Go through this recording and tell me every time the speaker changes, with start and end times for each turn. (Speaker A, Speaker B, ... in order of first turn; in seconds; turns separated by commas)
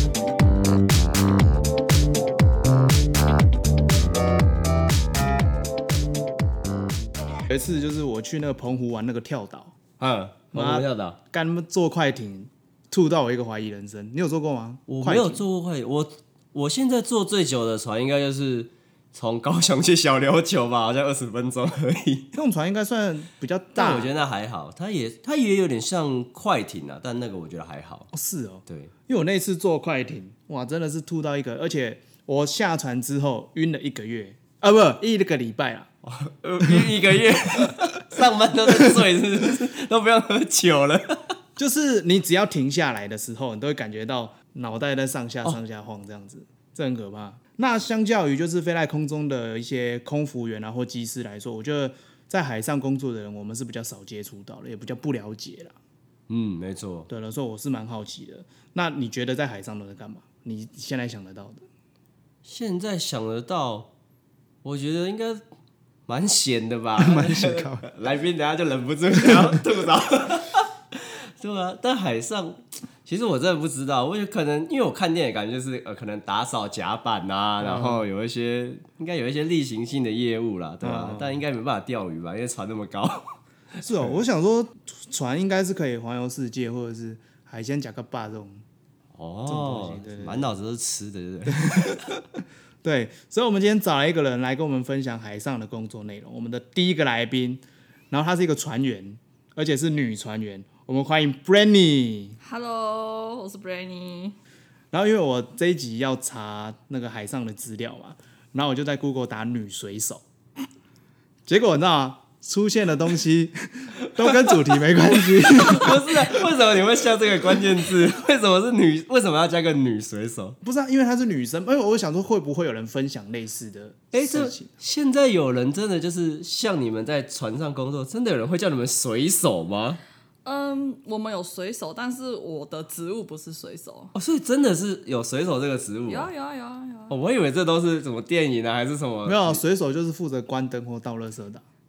Speaker A: 7.4-9.8, Speaker B: 10.0-11.2, Speaker A: 10.5-15.4, Speaker B: 14.9-22.3, Speaker A: 22.3-24.1, Speaker B: 23.8-28.1, Speaker A: 28.1-35.9, Speaker B: 28.7-28.9, Speaker B: 36.0-41.4, Speaker A: 41.6-55.8, Speaker B: 56.3-57.1, Speaker A: 57.1-61.6, Speaker B: 62.4-63.9, Speaker B: 64.6-65.4, Speaker B: 66.1-84.1, Speaker A: 67.0-67.9, Speaker A: 69.2-69.6, Speaker A: 77.6-78.1, Speaker A: 80.8-81.4, Speaker A: 83.8-88.6, Speaker B: 89.1-92.2, Speaker A: 89.5-90.5, Speaker A: 91.5-92.0, Speaker A: 92.8-102.4, Speaker C: 102.4-104.4, Speaker A: 104.9-110.2, Speaker A: 111.5-116.5, Speaker B: 114.2-114.6, Speaker B: 115.3-120.6, Speaker A: 120.6-124.7, Speaker B: 124.1-130.0, Speaker C: 130.4-134.1, Speaker B: 134.1-136.3, Speaker C: 136.1-137.1, Speaker B: 137.1-139.6, Speaker A: 139.2-141.6